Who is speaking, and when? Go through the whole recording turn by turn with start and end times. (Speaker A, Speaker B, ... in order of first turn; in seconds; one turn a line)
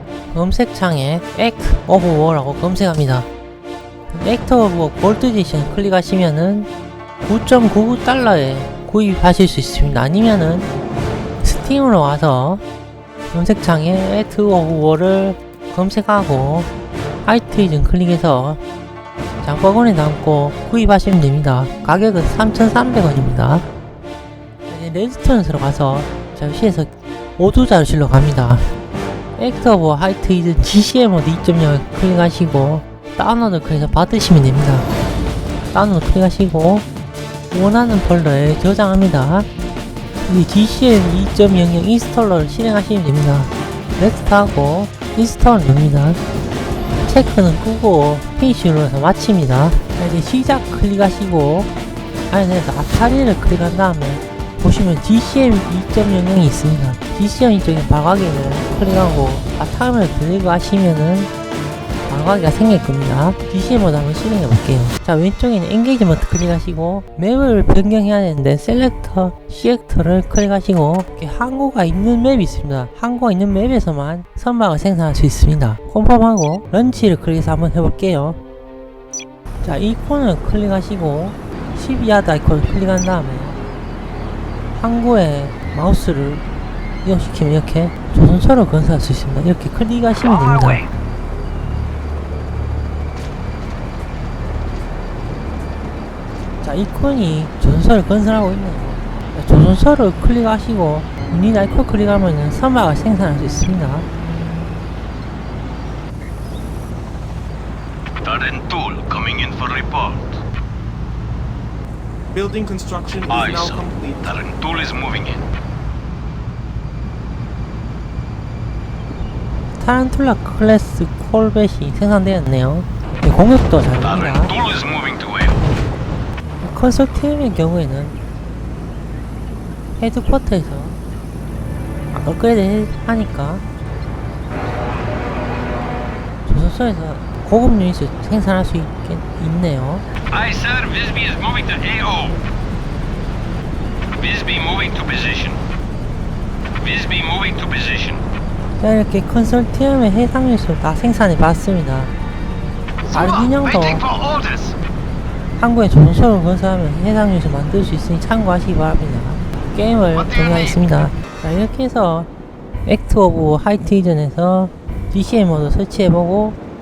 Speaker A: 0.3-3.3
Speaker A: 4.1-6.7
Speaker A: 7.2-10.7
Speaker A: 11.4-12.6
Speaker A: 13.3-16.7
Speaker A: 17.2-18.6
Speaker A: 19.4-23.6
Speaker A: 24.7-28.7
Speaker A: 29.4-34.9
Speaker A: 35.7-36.9
Speaker A: 37.5-39.5
Speaker A: 40.3-46.2
Speaker A: 47.0-51.7
Speaker A: 52.3-61.3
Speaker A: 62.1-78.4
Speaker A: 79.6-83.6
Speaker A: 84.8-86.4
Speaker A: 87.0-90.8
Speaker B: 90.2-90.9
Speaker A: 96.6-104.1
Speaker B: 108.2-110.4
Speaker C: 112.3-114.3
Speaker B: 113.3-115.5
Speaker A: 119.8-124.5
Speaker B: 124.0-125.6
Speaker A: 126.6-128.2
Speaker A: 130.0-131.0
Speaker A: 132.1-133.6
Speaker A: 136.5-140.0
Speaker B: 140.3-142.4
Speaker B: 144.2-145.6
Speaker B: 146.8-148.2
Speaker A: 148.8-152.1
Speaker B: 153.1-154.8
Speaker A: 153.1-154.0
Speaker A: 155.6-162.3
Speaker B: 160.1-160.8
Speaker A: 162.9-166.6